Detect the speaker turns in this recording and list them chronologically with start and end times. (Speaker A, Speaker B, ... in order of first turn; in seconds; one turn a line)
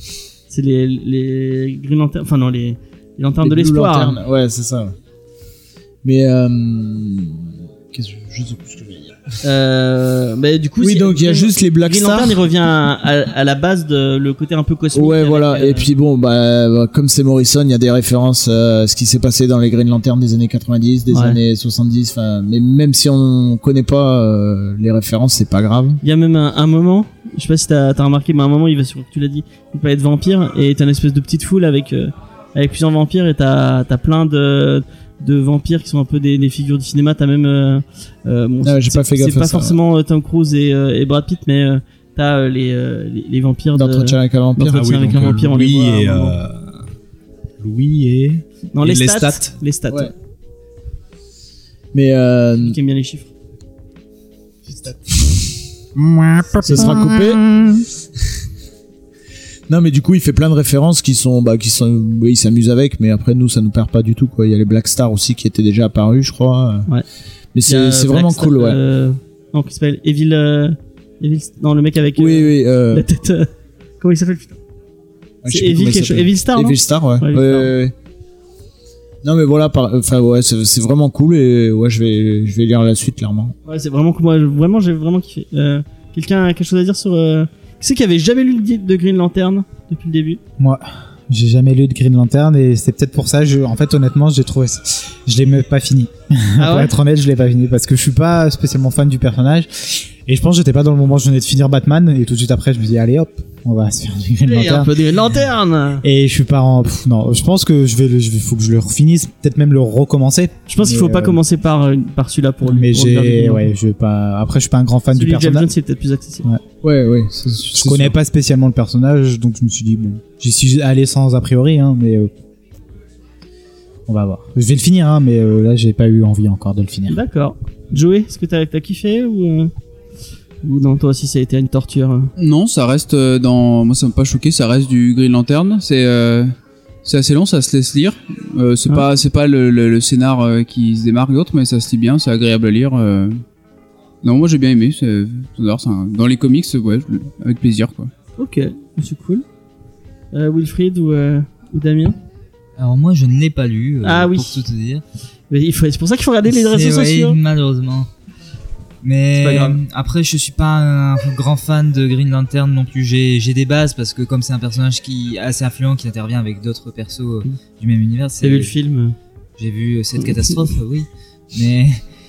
Speaker A: 0.5-4.2
Speaker B: 3.4-5.0
Speaker B: 6.0-9.2
Speaker A: 9.4-15.9
Speaker B: 10.8-12.4
Speaker B: 14.9-26.0
Speaker A: 21.1-21.4
Speaker A: 26.0-46.4
Speaker B: 38.6-39.8
Speaker B: 43.7-45.2
Speaker C: 44.7-46.8
Speaker C: 47.6-49.5
Speaker A: 48.7-50.1
Speaker B: 51.9-52.8
Speaker A: 52.6-53.3
Speaker B: 54.7-57.9
Speaker A: 56.6-57.1
Speaker B: 59.7-66.9
Speaker B: 67.5-68.8
Speaker A: 67.7-73.5
Speaker B: 72.2-73.1
Speaker A: 74.0-74.6
Speaker B: 75.4-77.9
Speaker A: 75.5-77.7
Speaker B: 79.2-83.5
Speaker A: 83.7-90.4
Speaker D: 90.6-104.9
Speaker A: 96.6-96.9
Speaker A: 104.5-106.0
Speaker D: 106.0-111.4
Speaker A: 110.7-113.7
Speaker D: 112.6-115.7
Speaker A: 115.1-116.5
Speaker B: 116.8-118.1
Speaker D: 117.7-122.3
Speaker D: 124.1-127.2
Speaker A: 127.1-129.7
Speaker A: 130.6-132.3
Speaker E: 132.4-136.5
Speaker E: 137.0-143.4
Speaker E: 144.2-148.1
Speaker A: 148.4-149.4
Speaker A: 150.3-152.2
Speaker F: 152.8-155.0
Speaker A: 154.0-154.7
Speaker A: 155.5-157.4
Speaker F: 156.5-158.1
Speaker F: 159.0-168.7
Speaker A: 159.4-159.8
Speaker A: 168.4-169.2
Speaker F: 169.6-172.0